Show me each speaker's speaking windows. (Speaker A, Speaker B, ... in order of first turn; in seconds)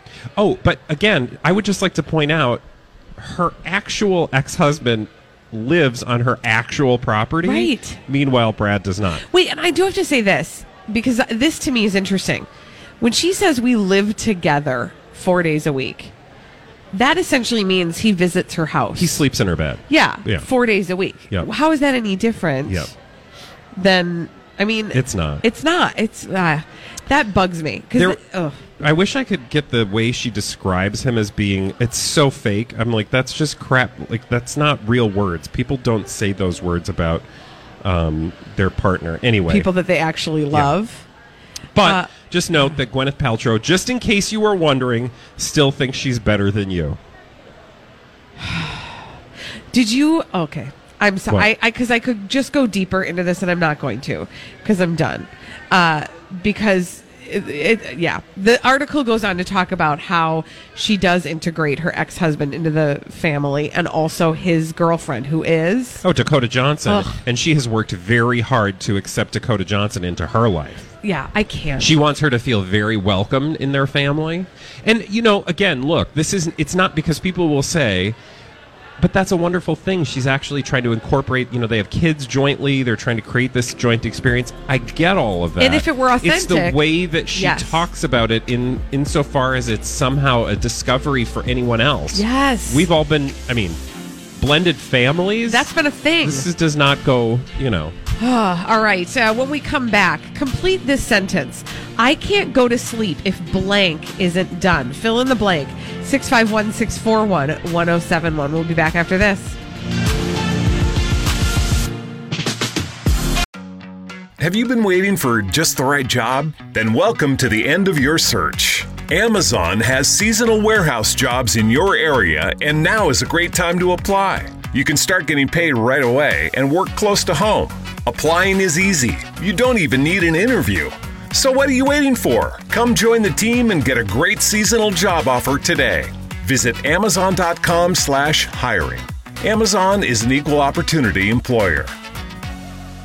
Speaker A: 0.4-2.6, 3.2-9.2, 18.9-20.5, 22.7-22.9, 24.9-25.4, 27.9-28.2, 28.8-37.3, 37.8-39.7, 41.8-47.0, 66.0-70.9, 71.8-78.2, 79.0-93.8, 94.4-95.7, 96.2-98.0
Speaker B: 7.4-8.0, 9.3-12.5, 13.0-16.1, 16.9-19.2, 19.9-22.9, 23.8-28.6, 39.5-41.0, 41.8-42.1, 48.4-49.0, 49.7-66.0, 66.9-67.2, 71.0-71.9, 85.6-87.9, 92.1-92.9, 95.5-96.5, 98.2-109.6
Speaker C: 114.4-141.9